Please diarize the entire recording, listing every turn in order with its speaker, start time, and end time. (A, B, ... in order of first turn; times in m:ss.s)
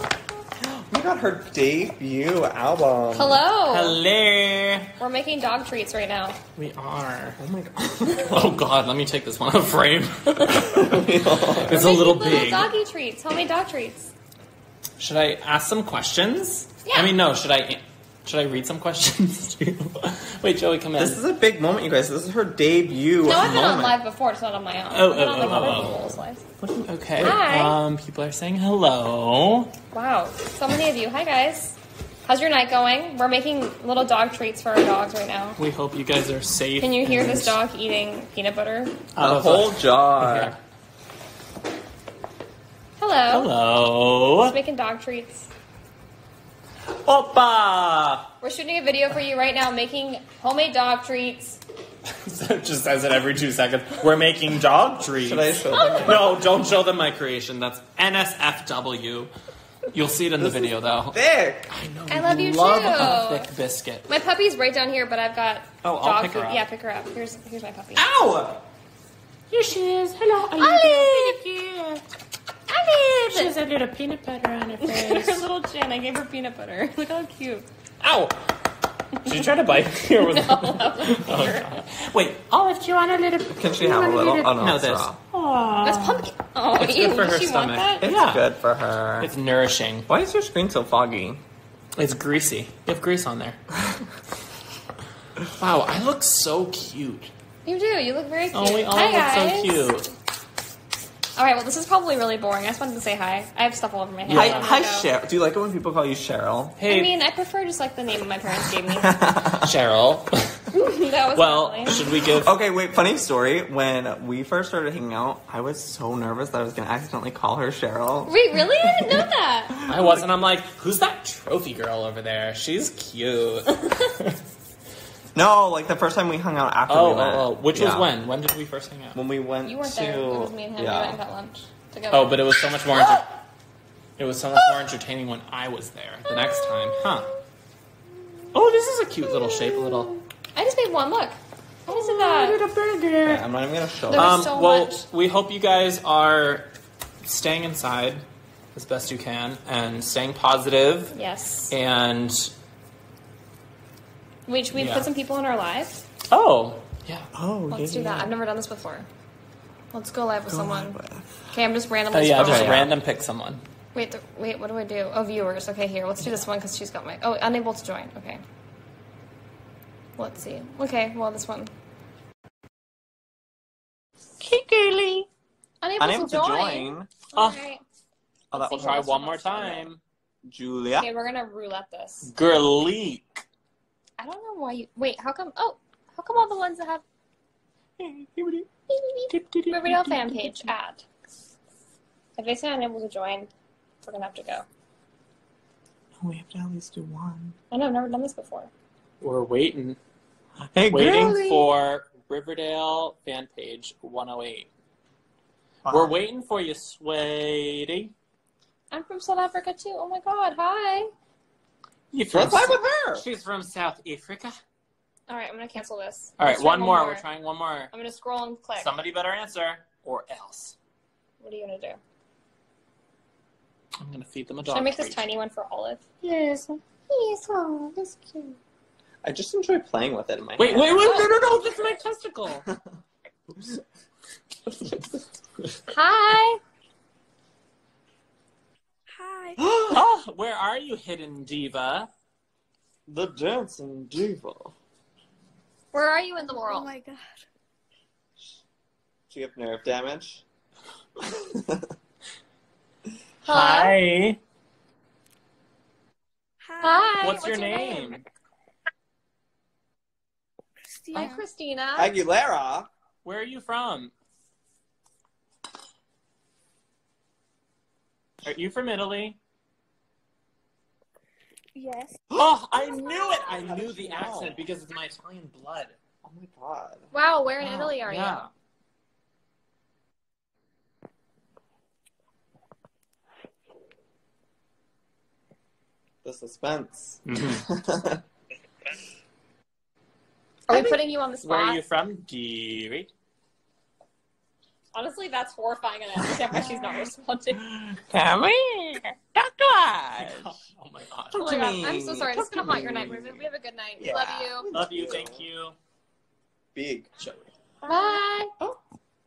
0:00.6-0:03.4 A
0:03.1-0:04.0 B
0:03.7-0:04.9 C
0:05.0-0:06.4 B
0:06.6-0:07.4 C
0:07.4-0:08.6 A
0:08.2-0:11.0 C
0:10.6-0:11.8 A
0:11.6-0:12.7 C
0:11.7-0:14.1 B
0:15.0-0:21.2 C
0:16.8-0:17.2 B
0:21.0-0:23.8 A
0:23.2-0:26.4 B
0:23.4-0:24.0 C
0:24.9-0:26.1 C
0:26.6-0:29.7 C
0:27.2-0:27.8 B
0:29.9-0:35.6 B
0:35.6-0:37.6 C
0:36.8-0:39.0 B
0:39.2-0:40.6 C
0:39.2-0:40.6 A
0:43.0-0:43.5 B
0:43.3-0:44.6 C
0:44.4-0:45.5 B
0:46.9-0:48.3 C
0:48.4-0:51.6 B
0:52.1-0:59.3 C
0:55.2-0:56.3 A
0:55.7-0:56.4 B
0:59.9-1:01.2 C
1:00.4-1:01.7 A
1:01.7-1:04.1 C
1:02.1-1:03.5 B
1:04.1-1:08.0 B
1:05.8-1:06.6 C
1:08.0-1:08.6 C
1:09.5-1:12.0 C
1:10.6-1:11.4 B
1:12.7-1:13.6 B
1:13.2-1:15.4 C
1:14.8-1:17.7 B
1:18.0-1:18.5 C
1:19.2-1:23.6 C
1:20.2-1:21.8 B
1:23.5-1:25.2 A
1:23.7-1:24.6 B
1:24.5-1:28.5 C
1:25.8-1:28.1 B
1:28.0-1:29.3 A
1:29.2-1:30.1 C
1:30.1-1:31.4 A
1:32.0-1:33.6 C
1:35.5-1:37.3 C
1:37.6-1:39.9 B
1:38.5-1:40.1 C
1:41.4-1:45.1 B
1:44.2-1:44.8 C
1:44.3-1:46.8 A
1:46.8-1:47.1 C
1:46.9-1:49.2 B
1:48.9-1:49.7 A
1:49.6-1:50.6 C
1:50.7-1:52.0 B
1:51.4-1:52.5 C
1:52.4-1:59.2 A
1:58.3-1:59.8 B
1:59.8-2:00.2 A
1:59.8-2:04.4 C
2:05.4-2:08.1 A
2:06.9-2:09.2 C
2:09.1-2:11.2 A
2:09.6-2:12.4 B
2:12.1-2:13.3 C
2:14.2-2:17.3 C
2:18.5-2:20.2 C
2:20.6-2:22.6 B
2:21.9-2:23.4 C
2:23.2-2:24.5 A
2:24.1-2:25.0 B
2:24.1-2:26.7 C
2:27.2-2:31.1 C
2:31.1-2:31.7 B
2:31.7-2:32.5 C
2:34.5-2:36.0 B
2:34.7-2:35.1 C
2:36.3-2:37.3 C
2:37.4-2:38.3 A
2:37.7-2:39.1 B
2:39.9-2:41.0 B
2:40.5-2:41.4 A
2:41.5-2:42.9 B
2:42.1-2:43.6 C
2:42.4-2:42.9 A
2:43.9-2:48.4 B
2:50.2-2:51.7 B
2:54.4-2:55.2 C
2:55.8-2:57.8 B
2:56.0-2:57.1 A
2:57.4-2:57.6 C
2:58.5-2:59.0 A
2:58.5-2:59.9 B
2:58.7-3:00.0 C
3:00.4-3:01.1 A
3:00.9-3:02.3 B
3:02.2-3:03.4 C
3:04.2-3:07.0 B
3:08.0-3:08.7 C
3:08.9-3:11.0 B
3:09.3-3:10.7 C
3:12.4-3:13.5 B
3:14.0-3:14.7 B
3:16.2-3:17.6 A
3:17.7-3:18.7 B
3:19.2-3:20.0 C
3:20.6-3:21.7 A
3:20.9-3:24.7 C
3:25.9-3:26.2 A
3:25.9-3:28.1 C
3:28.9-3:31.1 B
3:32.1-3:34.6 C
3:32.3-3:33.2 A
3:35.3-3:37.2 B
3:36.4-3:37.9 C
3:37.9-3:38.9 B
3:38.8-3:40.8 C
3:41.4-3:42.0 B
3:44.0-3:45.2 C
3:44.7-3:46.5 B
3:46.3-3:46.8 C
3:47.1-3:48.6 B
3:49.2-3:51.4 A
3:50.6-3:52.7 C
3:51.0-3:51.3 B
3:55.9-3:56.6 B
3:59.1-3:59.6 D
3:59.7-4:00.0 A
3:59.8-4:02.1 C
4:03.1-4:04.8 A
4:05.9-4:06.9 B
4:06.7-4:07.4 D
4:09.3-4:10.4 A
4:11.2-4:11.9 A
4:13.4-4:14.0 B
4:13.5-4:14.4 C
4:16.6-4:18.2 D
4:16.8-4:18.1 B
4:17.2-4:18.2 C
4:20.8-4:21.4 D
4:21.1-4:22.1 B
4:22.0-4:22.9 A
4:23.2-4:24.1 C
4:28.4-4:29.4 C
4:31.7-4:33.5 D
4:32.3-4:36.0 C
4:33.4-4:34.6 A
4:36.2-4:37.1 A
4:37.1-4:38.5 B
4:37.6-4:38.5 C
4:46.2-4:48.2 A
4:47.2-4:47.6 C
4:50.7-4:51.8 B
4:51.4-4:53.1 C
4:54.9-4:57.6 B
4:56.5-4:56.8 A
4:57.6-5:00.6 A
5:00.2-5:01.7 C
5:01.3-5:03.5 A
5:01.3-5:04.7 B
5:04.0-5:05.4 A
5:04.7-5:05.8 C
5:06.8-5:07.1 A
5:07.2-5:07.5 C
5:07.8-5:08.5 B